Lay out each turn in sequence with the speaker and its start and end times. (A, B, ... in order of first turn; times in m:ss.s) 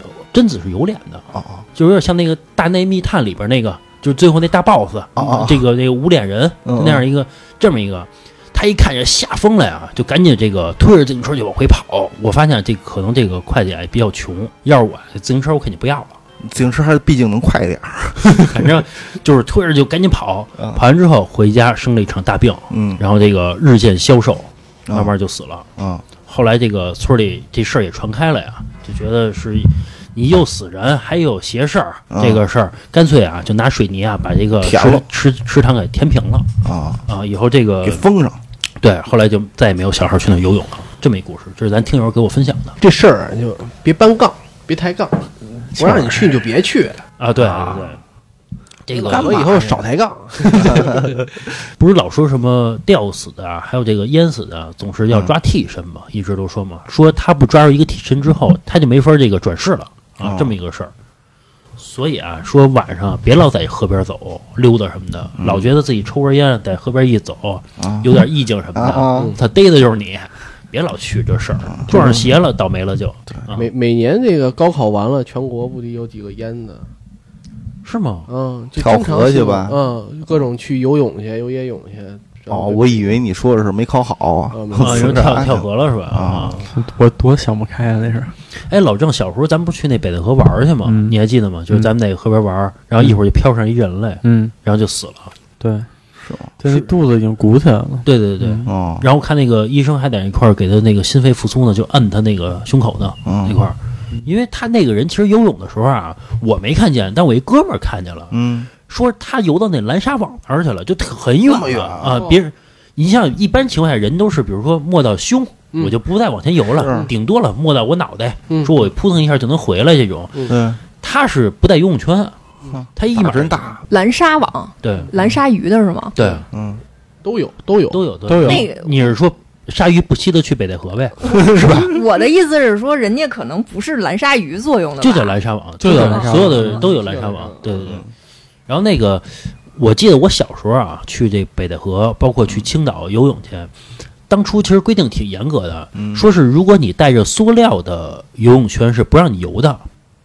0:00.2-0:01.2 A
0:01.3-0:01.6 B
0:01.8-0:16.2 A
0:05.2-0:05.6 B
0:06.7-0:07.0 B
0:16.4-0:18.7 B
0:18.3-0:25.7 A
0:22.7-0:23.0 B
0:25.8-0:26.0 B
0:26.2-0:36.5 A
0:32.1-0:32.4 B
0:34.6-0:35.0 B
0:36.6-0:37.0 B
0:37.1-0:38.0 A
0:37.8-0:38.4 B
0:38.8-0:42.8 A
0:42.8-0:47.0 C
0:45.8-0:46.2 B
0:47.2-0:48.0 A
0:47.4-0:48.0 B
0:48.9-0:49.5 A
0:48.9-0:51.1 C
0:49.0-0:49.8 B
0:50.5-1:00.9 A
0:50.6-0:51.1 B
1:00.2-1:00.6 B
1:01.8-1:13.7 A
1:05.4-1:05.7 B
1:07.8-1:09.4 B
1:09.2-1:09.4 C
1:11.7-1:12.3 B
1:11.9-1:12.2 C
1:13.5-1:16.9 C
1:17.8-1:18.3 A
1:18.3-1:23.1 C
1:18.8-1:19.8 B
1:22.5-1:26.6 B
1:24.5-1:25.4 C
1:24.8-1:26.7 A
1:26.7-1:28.3 D
1:28.7-1:35.4 A
1:30.8-1:31.2 D
1:34.2-1:34.5 D
1:35.6-1:35.9 D
1:36.2-1:36.5 B
1:36.6-1:38.7 D
1:38.0-2:02.4 A
1:38.7-1:39.1 B
1:43.3-1:43.7 B
1:48.3-1:48.7 B
1:51.4-1:52.2 B
1:52.1-1:52.4 C
1:56.8-1:57.1 B
2:00.5-2:00.8 B
2:02.7-2:03.8 B
2:03.0-2:03.8 A
2:03.9-2:06.2 E
2:04.8-2:05.1 A
2:06.2-2:06.5 A
2:06.5-2:06.8 B
2:07.2-2:08.7 C
2:07.9-2:11.7 A
2:08.3-2:08.6 D
2:08.4-2:09.0 E
2:11.2-2:16.8 E
2:11.5-2:11.9 B
2:15.0-2:18.0 A
2:15.8-2:16.9 D
2:16.8-2:17.6 C
2:17.7-2:18.1 B
2:18.7-2:23.7 A
2:24.3-2:29.9 A
2:26.0-2:26.3 B